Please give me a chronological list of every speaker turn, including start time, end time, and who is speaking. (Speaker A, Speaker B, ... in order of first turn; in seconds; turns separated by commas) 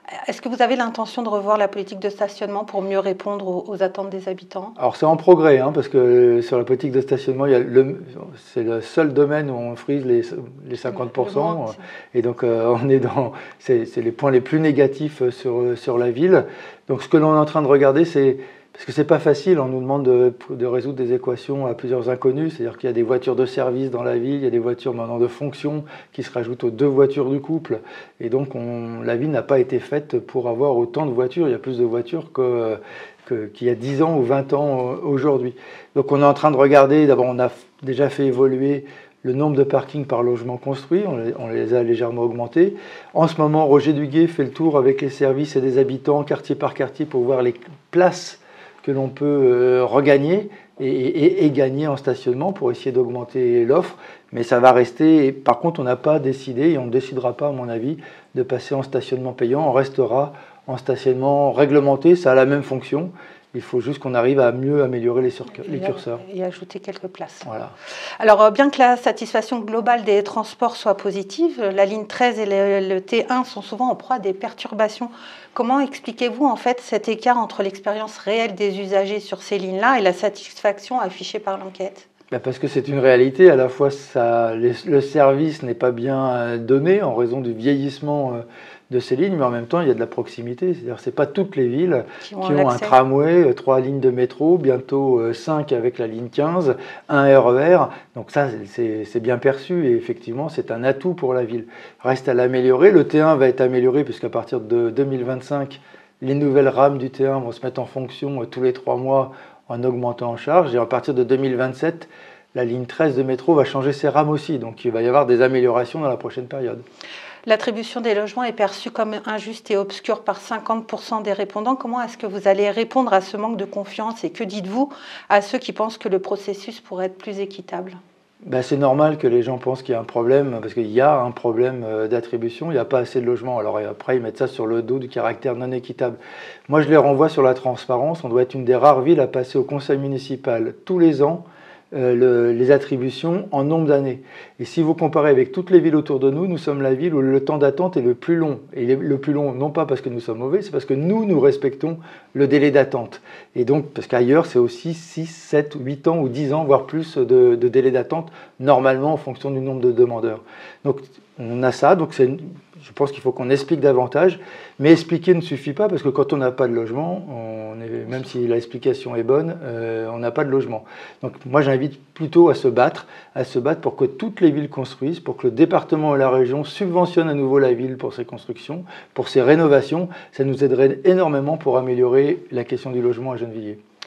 Speaker A: 0.2-4.8, Speaker B: 4.8-66.2, Speaker A: 11.0-11.8, Speaker A: 65.6-67.5, Speaker B: 67.5-67.7, Speaker A: 68.2-82.1, Speaker B: 82.3-116.8, Speaker A: 92.2-93.0, Speaker A: 117.5-128.0, Speaker B: 128.4-183.8